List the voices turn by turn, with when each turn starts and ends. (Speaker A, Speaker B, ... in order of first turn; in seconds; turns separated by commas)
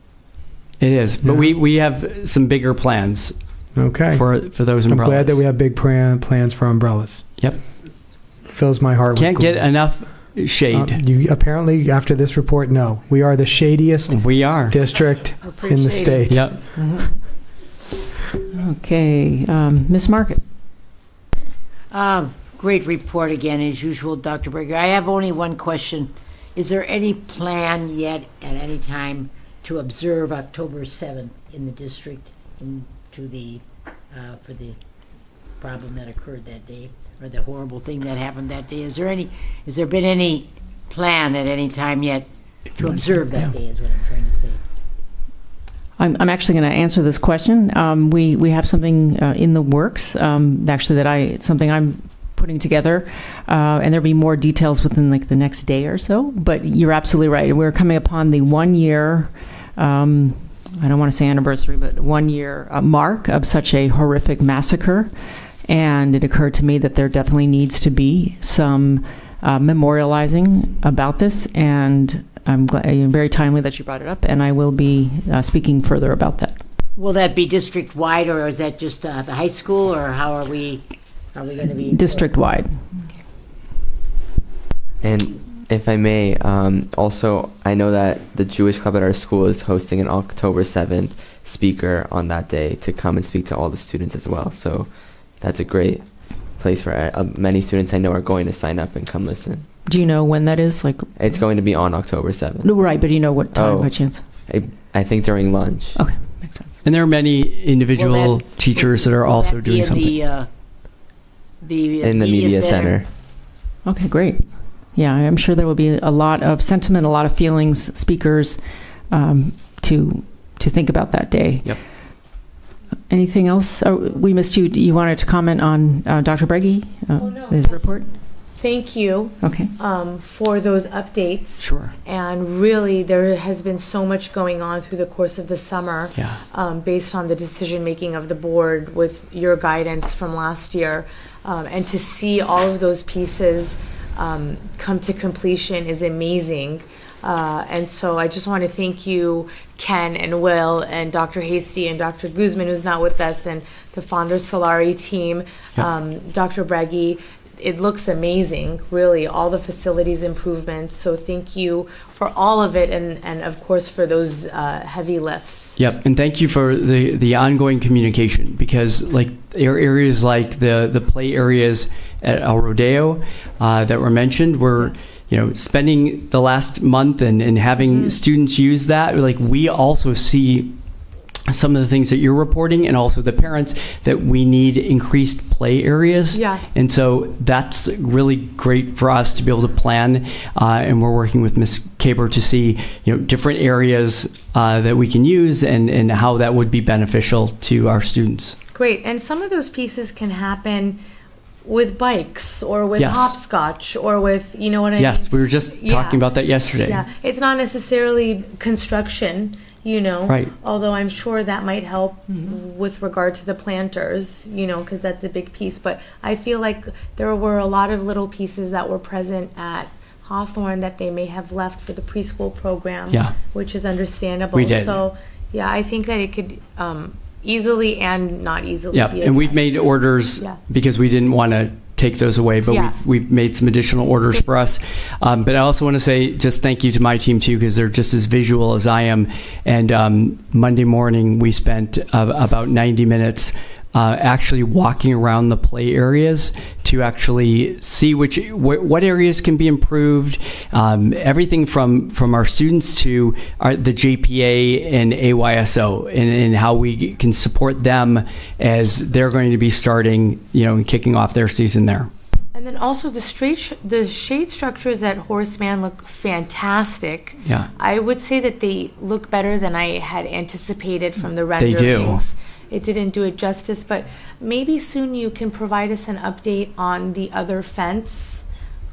Speaker A: 0.8-3.3, Speaker B: 1.2-1.6, Speaker B: 3.7-4.3, Speaker A: 4.1-5.4, Speaker B: 4.8-7.2, Speaker B: 8.4-9.7, Speaker A: 9.1-11.0, Speaker B: 10.7-16.5, Speaker A: 14.1-14.8, Speaker C: 15.0-17.2, Speaker A: 16.3-16.6, Speaker D: 18.5-20.5, Speaker C: 21.9-34.8, Speaker C: 35.6-44.6, Speaker A: 42.8-43.4, Speaker D: 46.0-65.1, Speaker D: 65.7-76.6, Speaker C: 77.0-82.3, Speaker D: 81.8-82.8, Speaker E: 85.0-99.6, Speaker D: 99.8-101.1, Speaker E: 101.2-102.8, Speaker D: 102.6-104.2, Speaker E: 103.5-106.0, Speaker D: 105.9-106.7, Speaker A: 106.8-110.2, Speaker C: 107.9-110.5, Speaker C: 111.6-113.0, Speaker E: 112.0-113.1, Speaker D: 113.8-118.6, Speaker D: 119.1-121.8, Speaker D: 123.1-128.1, Speaker F: 127.2-128.0, Speaker F: 128.6-165.7, Speaker D: 129.4-129.7, Speaker A: 131.6-131.9, Speaker A: 165.8-180.7, Speaker F: 177.8-178.2, Speaker A: 181.5-198.6, Speaker F: 186.3-186.6, Speaker F: 198.7-201.0, Speaker F: 201.6-206.2, Speaker A: 203.0-203.3, Speaker A: 205.0-207.0, Speaker F: 206.8-230.6, Speaker A: 210.3-210.5, Speaker A: 223.1-223.3, Speaker A: 224.5-225.0, Speaker A: 228.9-262.1, Speaker F: 232.7-233.0, Speaker F: 262.5-278.4, Speaker A: 271.6-272.2